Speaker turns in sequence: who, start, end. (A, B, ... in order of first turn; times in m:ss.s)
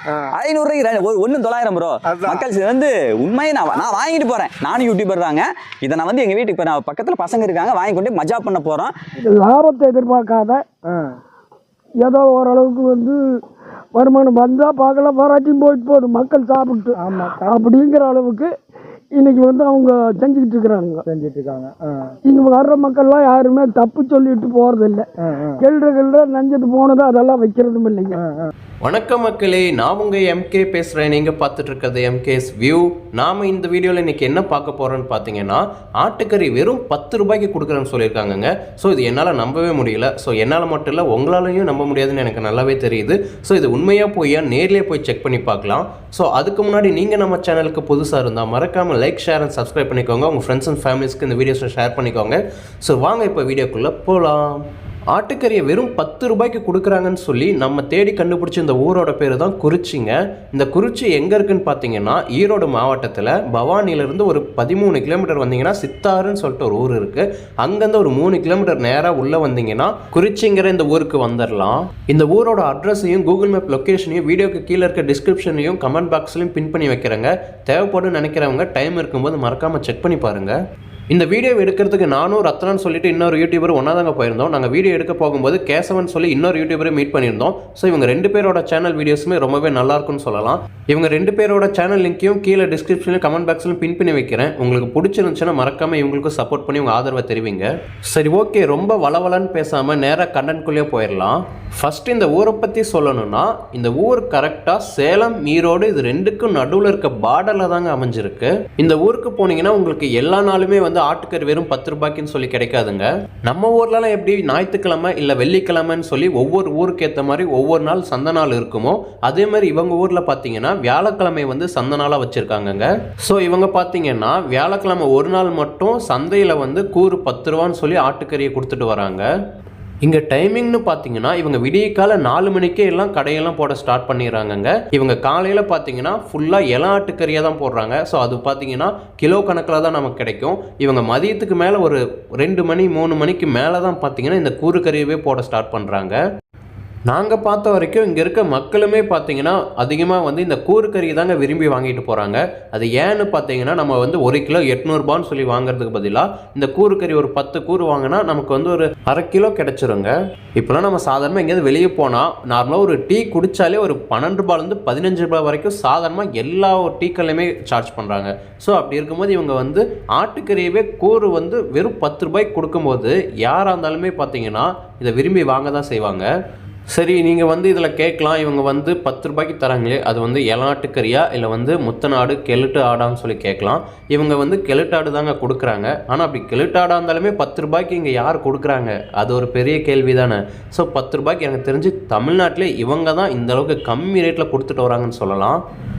0:00.3-0:08.9 A
0:02.1-0:02.4 B
0:09.2-0:10.6 C
0:10.8-0:11.2 B
0:12.0-0:13.2 C
0:13.9-0:18.5 C
0:16.9-0:17.5 B
0:19.1-0:21.0 C
0:21.0-0:22.1 B
0:22.2-0:25.0 C
0:25.2-0:25.6 B
0:25.6-0:28.2 C
0:28.1-0:28.5 B
0:28.8-0:54.6 D
0:55.1-1:20.6 D
1:21.1-2:09.3 D
2:10.0-2:26.2 D
2:27.1-2:56.3 D
2:56.9-3:15.6 D